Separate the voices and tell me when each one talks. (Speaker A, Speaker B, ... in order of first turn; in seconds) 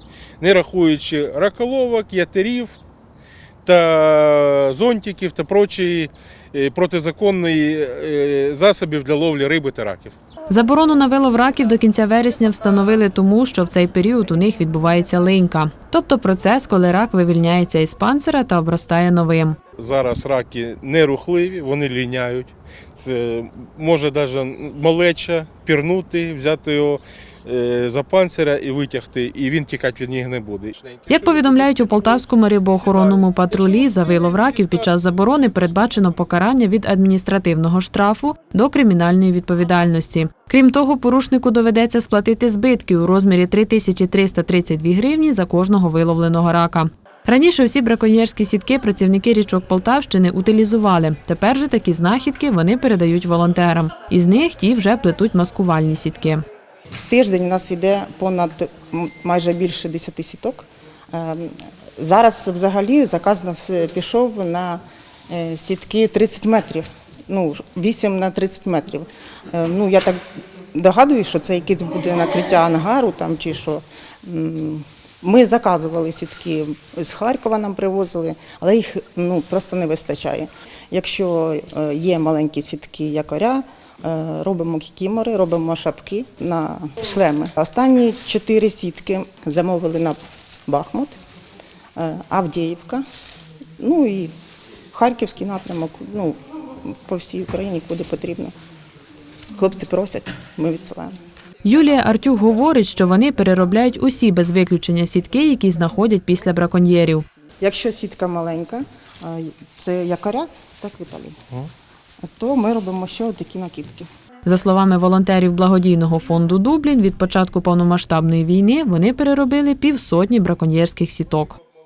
Speaker A: 0.4-2.8, 3.6-10.1, 19.8-34.9
Speaker B: 10.5-19.6, 31.1-56.4, 101.6-107.2, 114.4-121.6
Speaker C: 57.0-70.2, 70.7-91.1, 92.0-93.0, 93.8-94.3, 94.9-98.5, 99.5-101.2, 107.6-111.4, 112.2-114.1